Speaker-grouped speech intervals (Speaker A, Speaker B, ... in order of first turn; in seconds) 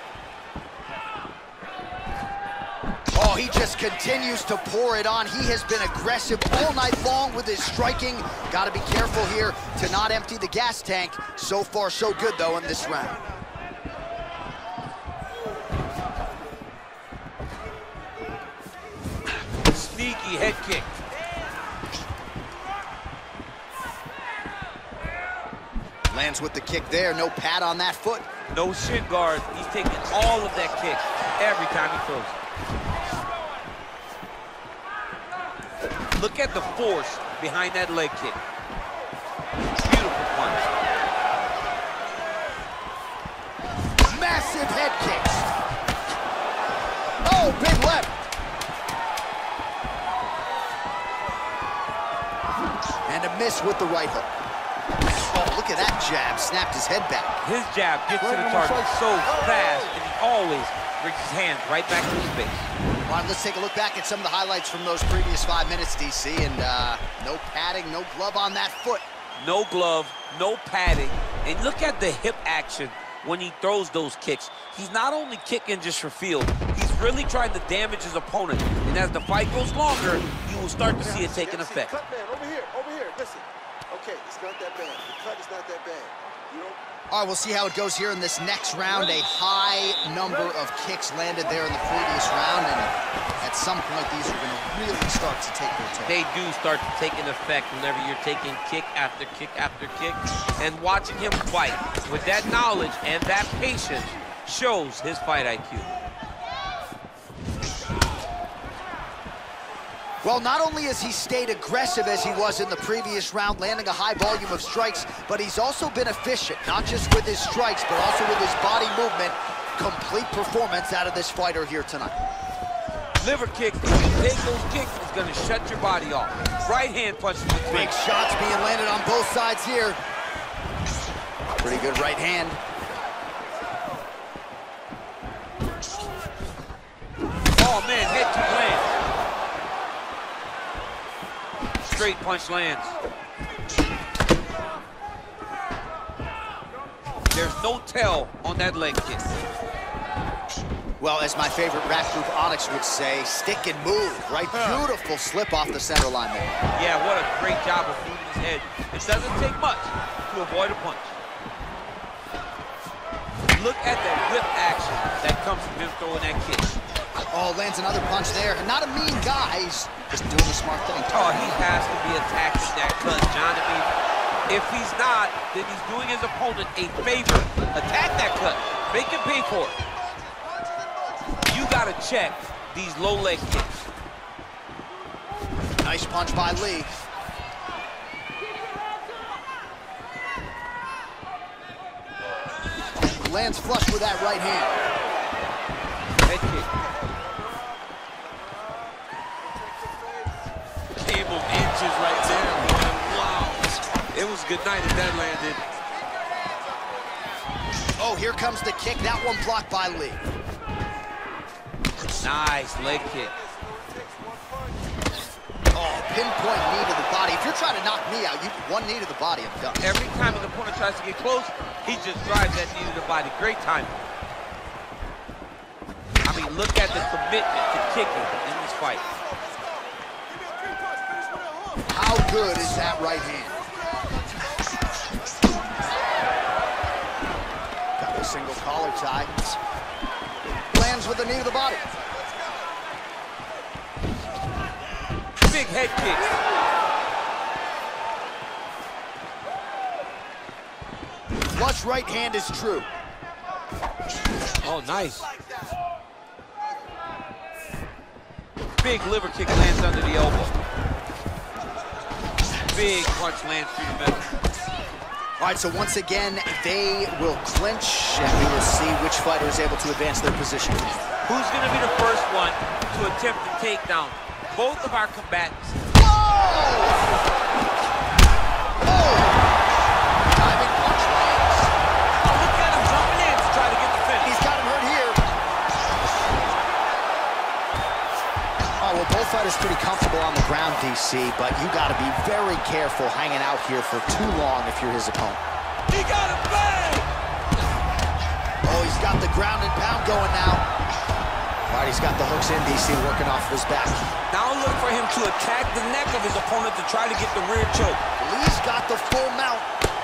Speaker A: 3.1-13.2, 26.1-28.3, 44.1-45.5, 47.2-48.2, 53.1-54.3, 55.3-57.4, 63.1-69.0, 87.1-96.2, 110.2-122.2, 127.7-130.0, 131.6-132.6, 151.0-156.6, 167.3-171.6, 185.8-186.9, 193.2-194.8, 208.0-210.2, 215.7-219.8, 231.9-233.6, 238.0-239.6, 240.7-241.8, 251.5-252.9, 265.4-271.0, 275.9-277.1, 278.8-279.4, 280.3-281.7, 284.2-285.2, 288.8-295.4, 298.6-300.6, 301.7-304.1, 308.2-309.7
Speaker B: 12.4-13.3, 81.0-86.8, 179.8-181.6, 196.8-200.5, 205.6-207.5, 212.8-215.2, 228.8-232.0, 232.7-235.1, 241.8-242.8
Speaker C: 19.7-20.9, 28.5-32.4, 36.2-38.4, 39.8-40.7, 57.4-62.7, 69.4-81.9, 96.0-105.9, 123.2-127.9, 137.5-138.9, 141.8-143.0, 147.3-149.2, 154.5-154.8, 156.7-161.2, 163.5-166.7, 171.1-173.9, 174.5-179.8, 181.5-183.8, 196.2-196.7, 201.0-205.6, 212.2-213.3, 219.8-224.0, 226.2-229.0, 245.4-246.3, 254.6-255.3, 258.8-260.5, 262.7-264.3, 271.3-275.8, 282.2-284.4, 295.9-297.1, 304.3-308.0